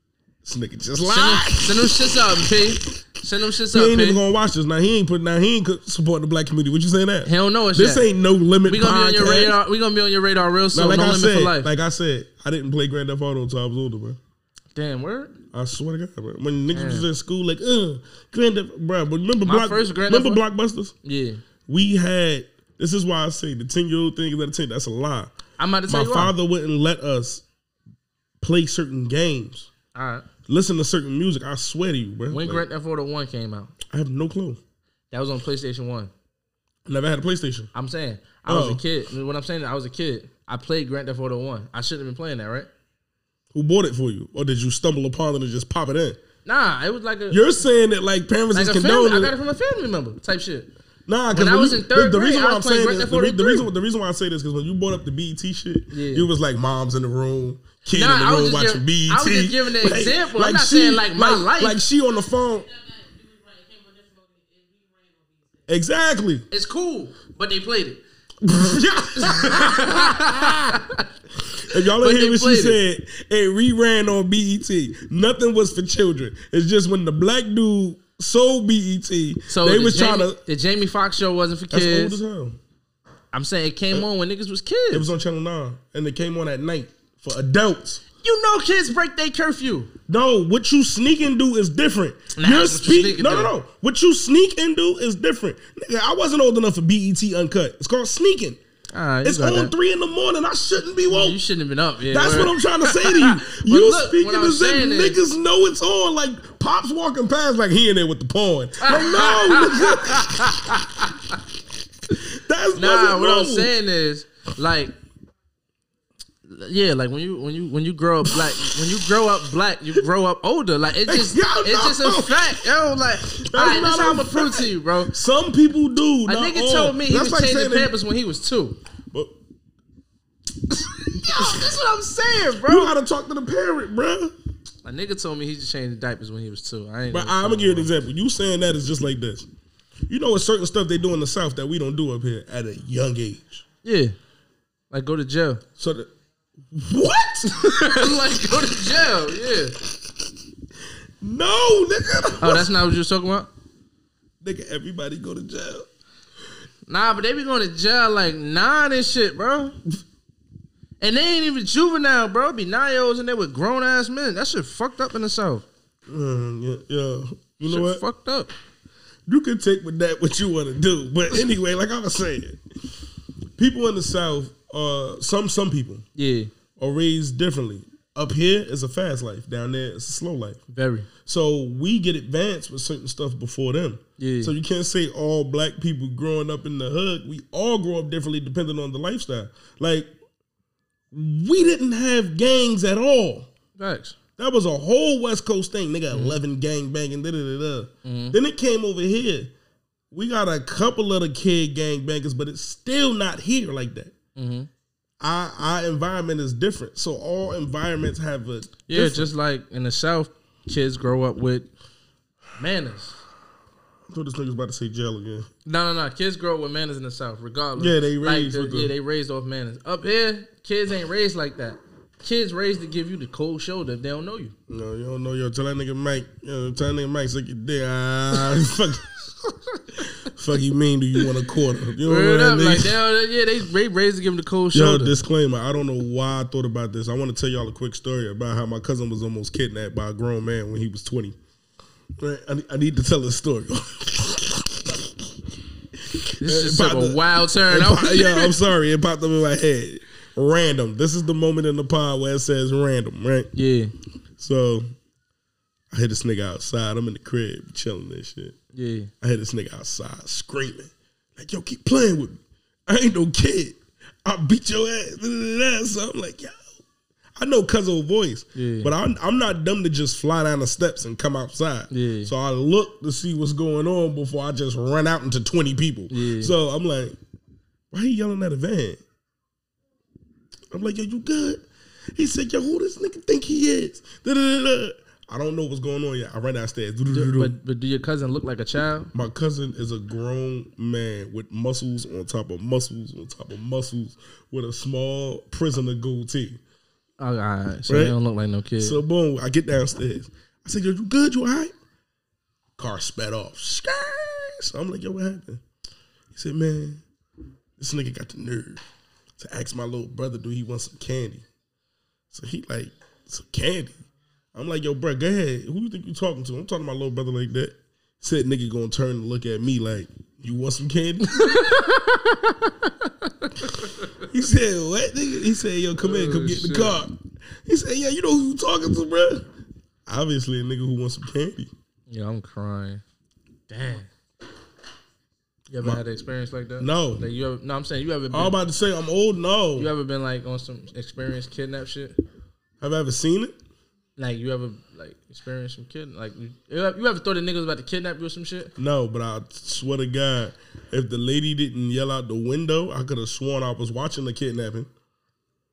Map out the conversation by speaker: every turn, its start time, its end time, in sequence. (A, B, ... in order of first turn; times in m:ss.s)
0:00.4-0:02.8 A
0:01.0-0:04.2 B
0:03.7-0:09.6 A
0:07.2-0:08.1 B
0:08.6-0:11.7 B
0:10.7-0:14.2 A
0:14.8-0:15.3 B
0:15.5-0:21.0 A
0:16.7-0:17.1 B
0:19.4-0:20.4 B
0:21.0-0:21.4 B
0:21.7-0:25.3 A
0:25.6-0:26.3 B
0:25.9-0:27.4 A
0:28.4-0:29.7 A
0:29.9-0:30.3 B
0:30.5-0:32.6 A
0:32.3-0:33.8 B
0:33.9-0:34.6 A
0:35.1-0:36.1 B
0:36.9-0:37.7 A
0:37.7-0:42.7 B
0:38.5-0:38.8 A
0:43.5-0:46.2 A
0:46.4-0:47.5 B
0:47.3-0:49.3 A
0:48.5-0:50.7 B
0:51.1-1:02.8 A
0:51.3-0:53.7 B
0:55.9-0:56.3 B
0:57.9-1:01.8 B
1:02.8-1:05.4 C
1:05.7-1:06.5 A
1:06.5-1:08.0 B
1:08.4-1:10.8 A
1:09.1-1:11.1 B
1:11.6-1:20.4 A
1:11.7-1:12.8 B
1:19.5-1:22.2 B
1:21.7-1:22.6 A
1:23.3-1:25.1 B
1:24.9-1:28.0 A
1:28.2-1:29.9 B
1:30.1-1:38.6 A
1:32.4-1:33.5 B
1:38.9-1:39.7 B
1:39.2-1:41.4 A
1:41.1-1:45.2 B
1:42.1-1:50.9 A
1:48.8-1:51.4 B
1:52.1-1:53.7 A
1:52.8-1:54.9 B
1:56.5-2:05.1 B
1:58.2-1:58.8 A
2:01.1-2:02.7 A
2:03.3-2:07.9 A
2:06.3-2:08.8 B
2:10.8-2:12.9 B
2:11.2-2:11.7 A
2:12.6-2:14.3 A
2:14.8-2:17.9 B
2:17.1-2:19.5 A
2:20.1-2:23.6 A
2:23.8-2:24.1 B
2:24.9-2:25.6 B
2:25.8-2:26.1 A
2:26.7-2:28.2 A
2:27.5-2:29.8 B
2:31.2-2:32.7 A
2:32.4-2:33.5 B
2:34.4-2:35.9 A
2:36.9-2:39.8 B
2:41.0-2:45.7 B
2:46.1-2:48.0 A
2:47.6-2:48.5 B
2:49.3-2:52.6 A
2:53.6-2:56.0 A
2:56.2-2:56.5 B
2:56.8-3:00.6 A
3:00.7-3:01.1 B
3:01.2-3:10.1 A
3:04.2-3:04.5 B
3:11.1-3:13.5 A
3:13.8-3:14.2 B
3:14.4-3:19.5 A
3:16.1-3:16.4 B
3:18.0-3:18.4 B
3:20.1-3:24.1 A
3:24.4-3:24.7 B
3:25.2-3:29.3 A
3:28.9-3:31.7 B
3:32.6-3:33.2 B
3:34.1-3:35.5 A
3:35.7-3:44.6 B
3:37.8-3:38.9 A
3:44.7-3:49.2 A
3:49.7-3:50.0 B
3:50.0-3:53.0 A
3:52.0-3:55.2 B
3:54.7-4:01.4 A
4:02.2-4:05.3 A
4:06.0-4:13.5 A
4:06.4-4:08.6 B
4:13.5-4:13.9 B
4:14.4-4:14.9 A
4:15.9-4:18.6 A
4:18.7-4:19.1 B
4:19.2-4:26.6 A
4:27.4-4:37.2 A
4:28.6-4:28.9 B
4:31.9-4:32.3 B
4:36.1-4:36.5 B
4:37.9-4:39.0 A
4:40.7-4:41.6 A
4:42.2-4:47.6 A
4:47.1-4:49.1 B
4:49.1-4:56.6 A
4:57.2-4:59.0 B
4:57.9-4:58.2 A
4:58.8-5:01.7 A
5:02.8-5:05.6 A
5:06.3-5:07.0 A
5:07.8-5:08.8 A
5:09.4-5:11.4 A
5:12.3-5:14.0 A
5:14.5-5:21.7 A
5:21.3-5:24.1 B
5:24.2-5:29.5 A
5:26.0-5:27.0 B
5:30.1-5:31.7 A
5:32.1-5:33.0 B
5:33.7-5:34.1 B
5:35.7-5:38.6 B
5:36.8-5:37.2 A
5:38.3-5:39.9 A
5:39.8-5:42.2 B
5:42.8-5:43.6 A
5:44.2-5:48.7 B
5:48.8-5:54.9 A